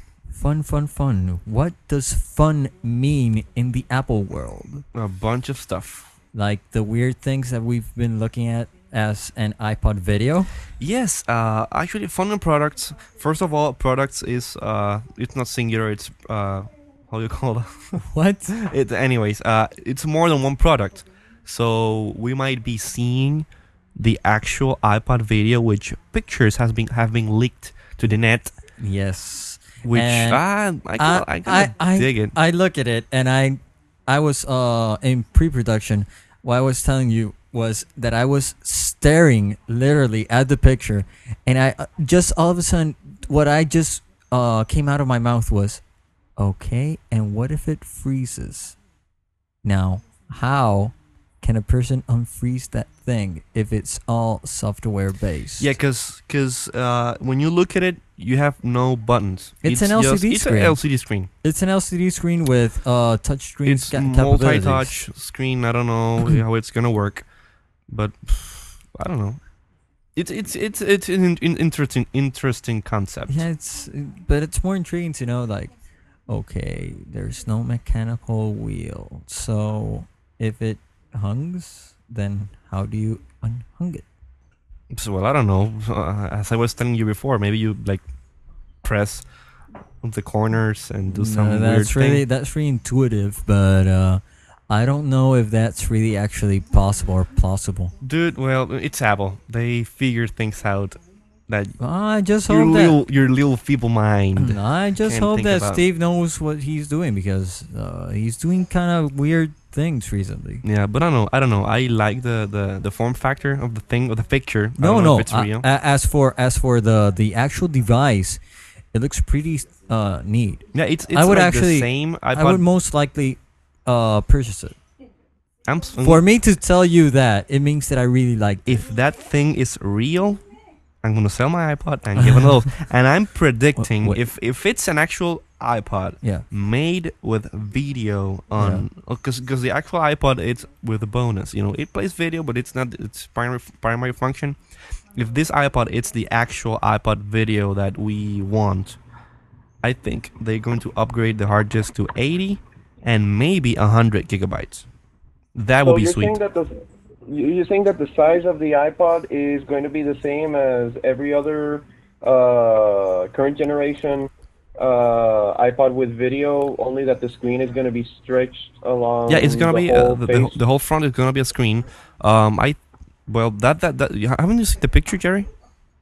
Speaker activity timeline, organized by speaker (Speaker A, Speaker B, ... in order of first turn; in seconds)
Speaker A: 0.3-4.8, 6.3-10.5, 18.0-18.7, 28.8-30.4, 31.0-45.8, 46.4-48.8, 49.6-55.7, 59.6-60.8, 61.4-65.0, 73.3-75.7, 76.3-84.0, 91.1-97.9, 101.8-103.0, 104.4-110.6, 114.8-118.4, 118.9-124.8, 126.0-128.7, 132.2-132.6, 133.8-134.2, 138.6-138.9
Speaker B: 4.9-6.1, 10.8-18.0, 18.6-28.6, 29.8-32.4, 55.6-61.3, 63.7-67.2, 67.9-69.4, 70.2-73.5, 84.9-88.0, 88.8-89.2, 90.0-92.2, 98.0-101.8, 102.5-105.8, 110.6-115.7, 120.7-122.7, 125.7-126.2, 128.7-130.4, 131.0-144.6, 145.2-149.0, 149.8-154.9, 155.6-156.4, 169.3-175.5
Speaker C: 155.8-156.7, 157.3-170.6